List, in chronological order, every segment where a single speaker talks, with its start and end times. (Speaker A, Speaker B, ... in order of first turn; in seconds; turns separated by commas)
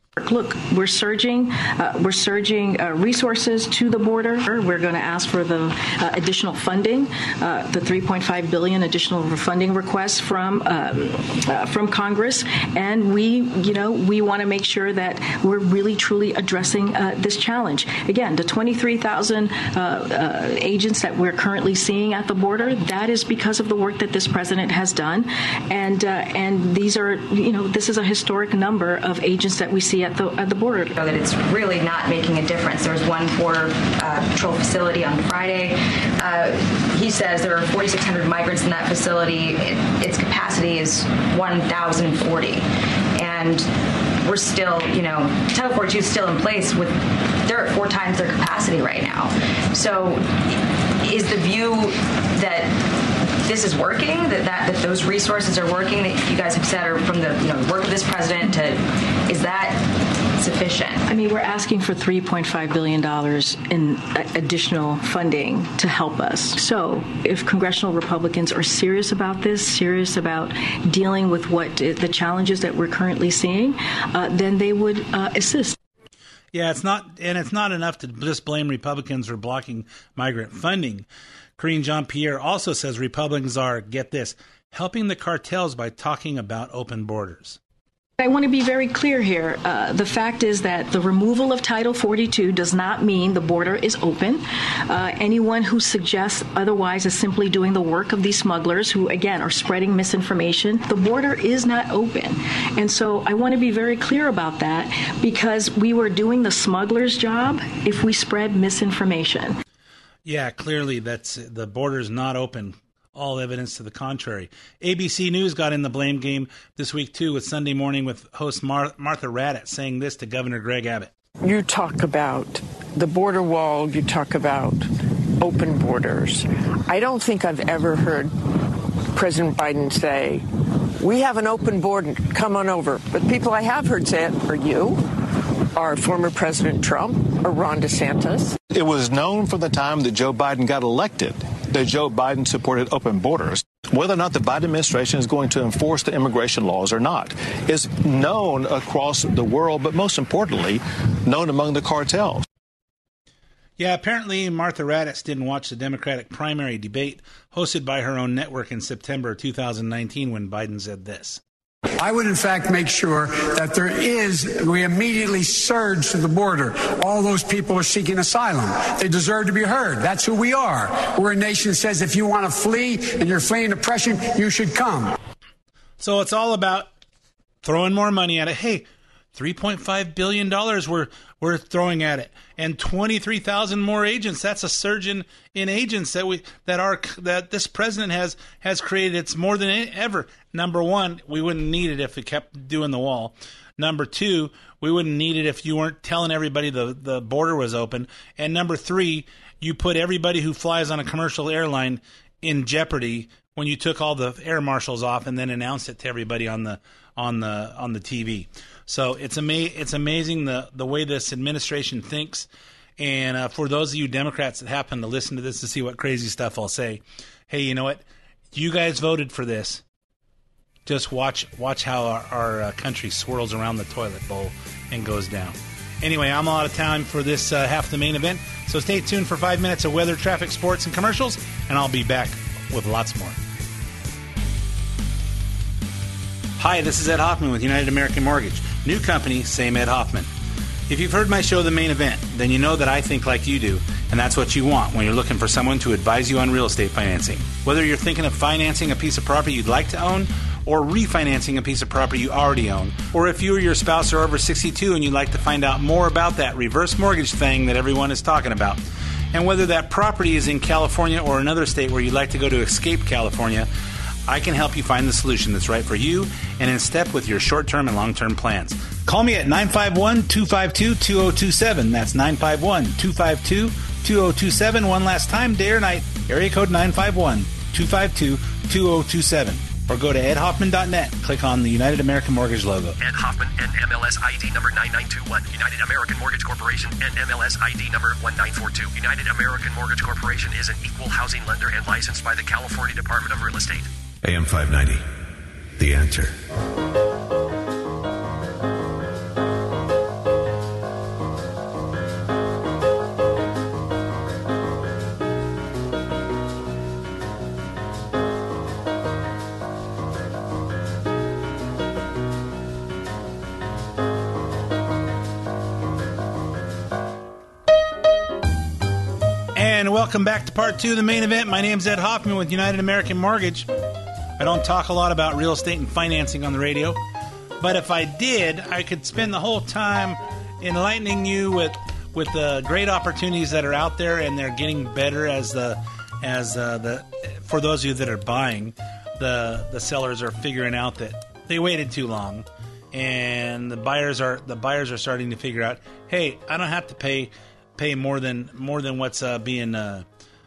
Speaker A: 0.2-30.9, Speaker B: 31.0-61.0, Speaker A: 61.1-75.8, Speaker C: 76.5-81.0, Speaker C: 81.6-87.6, Speaker A: 88.2-109.6, Speaker C: 110.2-121.1, Speaker D: 121.4-124.9, Speaker D: 125.4-130.4, Speaker D: 131.0-135.1, Speaker D: 135.7-138.6, Speaker E: 138.7-152.4, Speaker C: 153.8-161.4, Speaker F: 162.0-175.1, Speaker C: 176.0-176.9, Speaker C: 177.6-218.0, Speaker C: 218.5-219.8, Speaker C: 220.8-233.4, Speaker C: 236.6-240.3, Speaker C: 240.9-258.8, Speaker C: 259.3-263.7, Speaker C: 264.3-283.0, Speaker G: 283.0-293.9, Speaker C: 319.5-323.7, Speaker C: 324.4-327.0, Speaker C: 327.6-350.0